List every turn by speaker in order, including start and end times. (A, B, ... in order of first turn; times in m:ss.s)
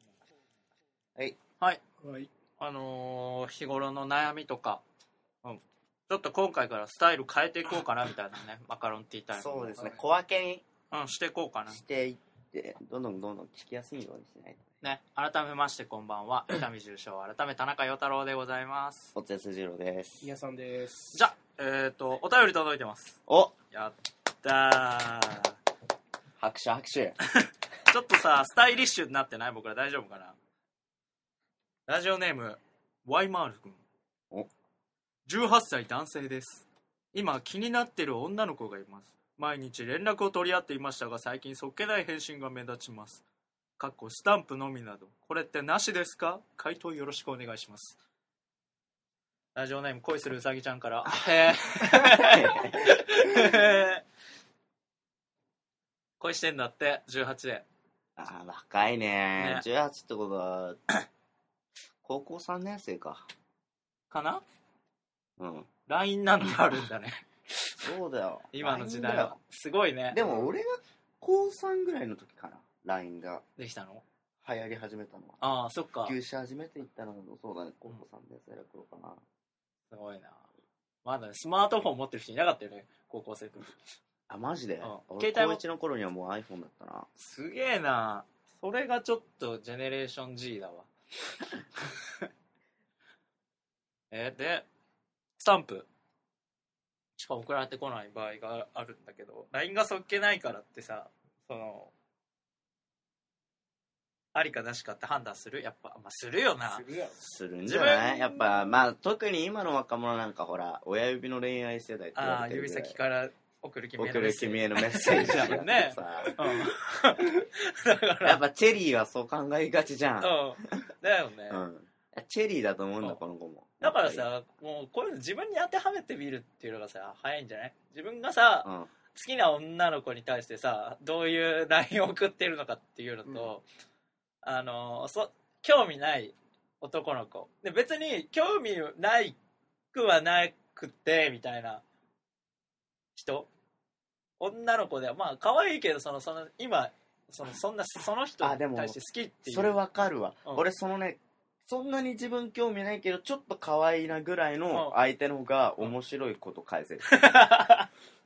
0:02.0-0:02.3 A
0:02.6-0:04.8 B
0:05.4-0:09.9 B
0:09.3-0:10.6 C
0:10.9-0:11.8 B
0:11.7-0:14.6 C
0:14.8-0:19.1 B
0:19.1-0:20.3 C
0:20.2-0:21.2 A
0:21.1-0:23.2 B
0:23.3-0:23.6 C
0:23.7-0:25.5 B
0:26.4-0:27.2 C
0:27.3-0:30.4 B
0:31.9-0:33.8 B
0:35.2-0:43.2 B
0:43.8-0:48.0 B
0:49.5-0:54.0 B
0:52.0-0:52.8 C
0:56.2-0:57.6 B
0:58.2-1:00.8 C
0:59.4-0:59.6 B
1:02.0-1:03.3 C
1:04.1-1:04.4 B
1:05.4-1:05.7 C
1:05.8-1:07.9 B
1:07.8-1:09.4 C
1:08.5-1:10.5 B
1:10.1-1:13.4 C
1:13.6-1:14.0 B
1:14.4-1:15.4 C
1:15.4-1:16.2 B
1:16.0-1:19.2 C
1:19.9-1:20.4 B
1:21.0-1:23.8 B
1:24.3-1:27.1 C
1:24.8-1:25.6 B
1:27.2-1:30.9 B
1:31.5-1:32.3 B
1:34.1-1:34.7 B
1:35.4-1:35.9 B
1:37.2-1:41.9 B
1:44.3-1:46.8 B
1:46.6-1:47.2 A
1:47.2-1:53.0 C
1:47.6-1:48.8 B
1:52.1-1:58.4 B
1:54.0-1:56.3 C
1:55.0-1:55.5 A
1:58.2-2:00.9 C
2:00.2-2:01.6 B
2:01.5-2:04.2 C
2:03.8-2:13.6 B
2:08.6-2:08.9 C
2:14.4-2:19.4 B
2:19.9-2:21.8 B
2:23.1-2:23.5 B
2:24.4-2:30.6 B
2:28.4-2:37.2 C
2:34.7-2:35.0 B
2:37.1-2:37.9 B